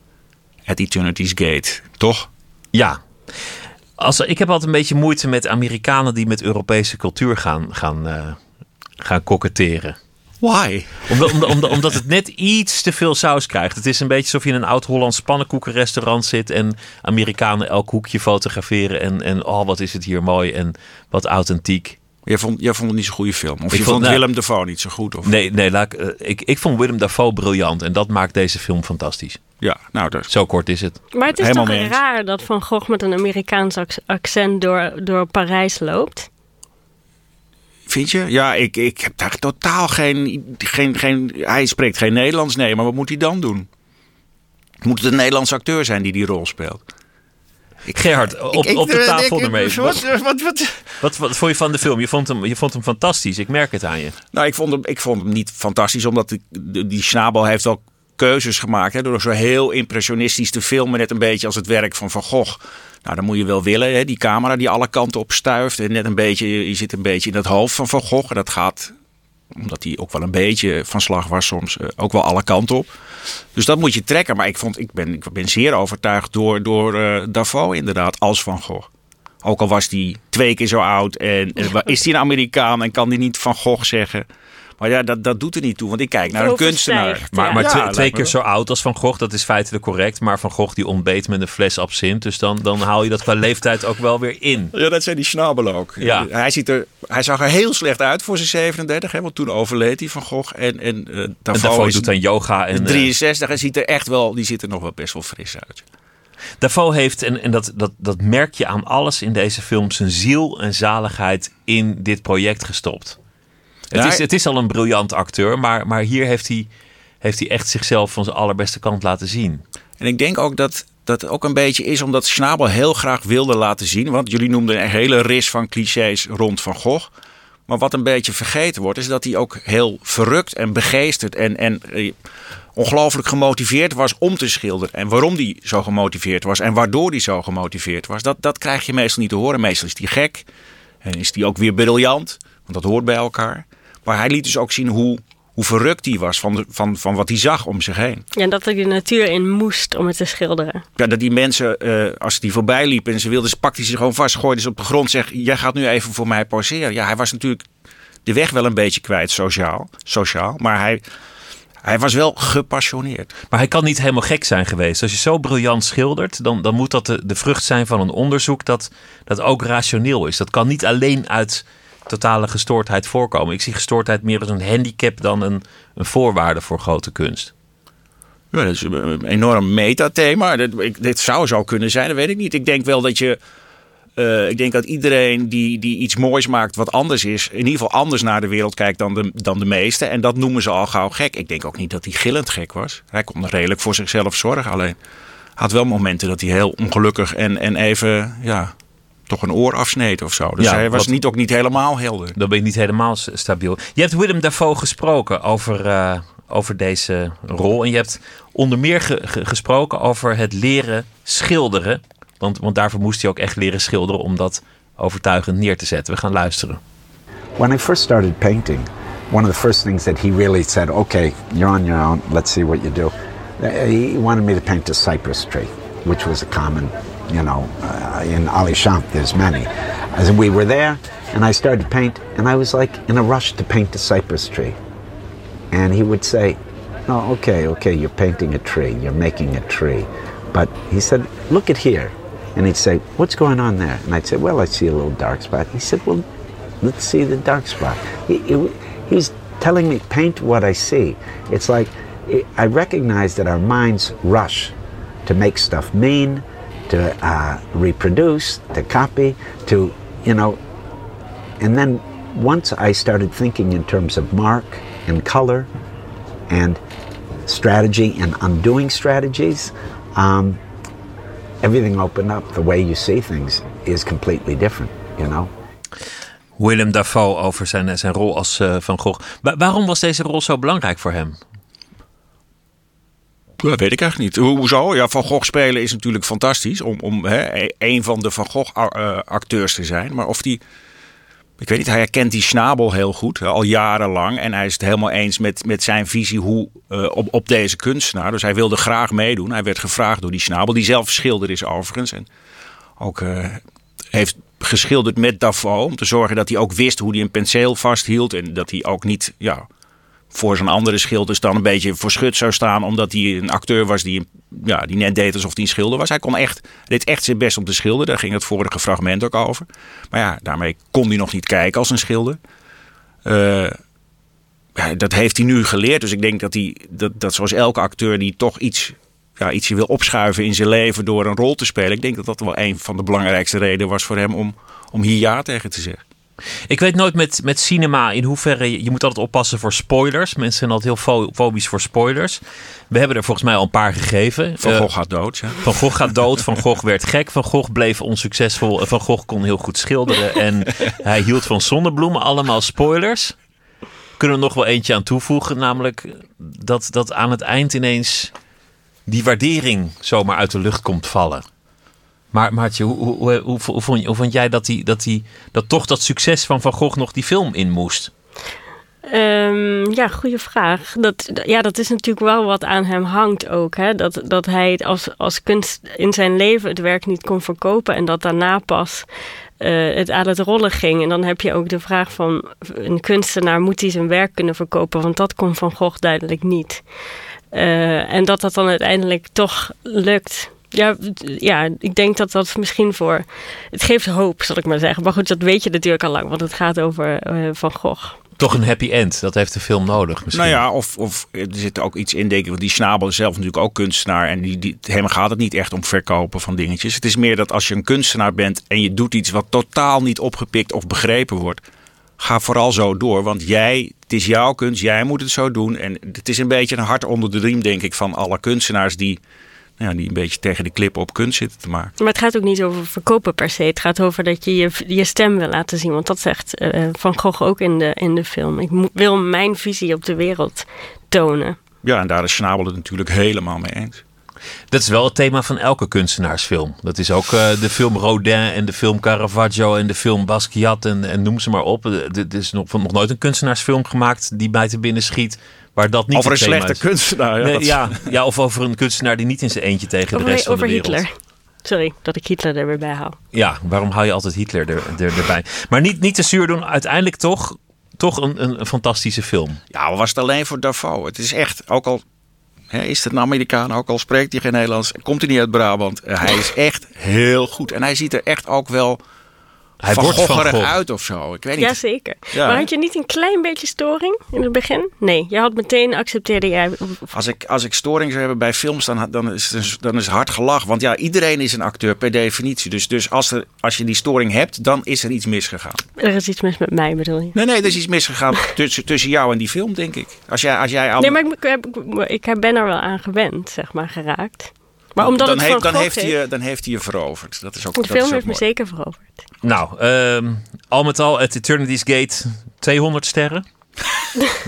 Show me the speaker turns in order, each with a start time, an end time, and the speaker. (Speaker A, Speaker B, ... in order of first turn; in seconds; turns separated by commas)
Speaker A: 0.7-2.3, Speaker B: 2.7-3.0, Speaker B: 4.0-8.4, Speaker B: 9.0-10.0, Speaker A: 10.4-11.7, Speaker B: 11.1-22.0, Speaker A: 22.2-25.3, Speaker B: 23.7-24.2, Speaker B: 25.2-29.4, Speaker A: 29.6-30.3, Speaker B: 30.3-31.0, Speaker C: 31.1-36.3, Speaker A: 31.4-31.9, Speaker A: 37.9-43.7, Speaker A: 44.8-46.8, Speaker A: 47.9-50.9, Speaker B: 47.9-50.0, Speaker B: 51.0-54.1, Speaker A: 54.3-68.9, Speaker A: 69.5-72.9, Speaker A: 73.5-78.9, Speaker A: 79.4-84.2, Speaker A: 84.8-88.3, Speaker C: 86.2-87.6, Speaker B: 87.3-94.7, Speaker A: 94.7-102.1, Speaker B: 96.0-96.3, Speaker B: 101.5-103.1, Speaker A: 102.7-105.8, Speaker B: 106.6-113.2, Speaker A: 113.9-114.2, Speaker B: 113.9-116.7, Speaker B: 117.2-119.6, Speaker A: 120.0-127.1, Speaker A: 127.7-132.2, Speaker A: 132.7-140.4, Speaker A: 141.0-148.2, Speaker C: 148.3-150.8, Speaker A: 151.0-157.7, Speaker A: 158.2-161.0, Speaker A: 161.8-163.3, Speaker B: 163.5-177.5, Speaker A: 178.5-183.4, Speaker A: 184.2-194.9, Speaker A: 195.6-198.7, Speaker A: 199.3-202.3, Speaker B: 200.6-201.1, Speaker B: 202.3-216.8, Speaker D: 217.6-234.8, Speaker D: 235.7-246.2, Speaker D: 246.8-254.7, Speaker D: 255.2-260.6, Speaker D: 261.6-265.7, Speaker D: 266.5-266.8, Speaker D: 267.4-270.6, Speaker D: 271.6-275.5, Speaker B: 276.6-281.4, Speaker A: 283.6-290.6, Speaker A: 291.6-302.3, Speaker A: 303.0-303.6, Speaker A: 304.1-309.6, Speaker A: 310.3-322.4, Speaker A: 323.2-323.8, Speaker A: 324.8-336.0, Speaker B: 336.7-344.9, Speaker A: 344.6-345.6, Speaker B: 345.6-353.4, Speaker B: 354.2-358.3, Speaker B: 359.1-361.4, Speaker B: 362.3-368.1, Speaker C: 369.1-379.1, Speaker C: 379.6-386.8, Speaker C: 387.5-398.2, Speaker B: 398.4-400.6, Speaker A: 400.3-411.6, Speaker A: 412.2-419.2, Speaker A: 419.8-421.9, Speaker C: 422.0-431.6, Speaker A: 431.8-434.0, Speaker B: 434.7-446.8, Speaker A: 446.1-448.0, Speaker B: 447.4-451.0, Speaker C: 450.1-453.2, Speaker B: 453.3-459.6, Speaker A: 459.7-462.0, Speaker A: 462.7-469.0, Speaker B: 469.8-470.7, Speaker A: 469.9-471.8, Speaker C: 471.6-477.1, Speaker A: 472.3-472.7, Speaker A: 477.1-485.9, Speaker C: 486.0-487.4, Speaker A: 487.3-491.2, Speaker C: 491.0-496.1, Speaker A: 495.0-498.4, Speaker C: 497.8-499.1, Speaker B: 499.4-503.4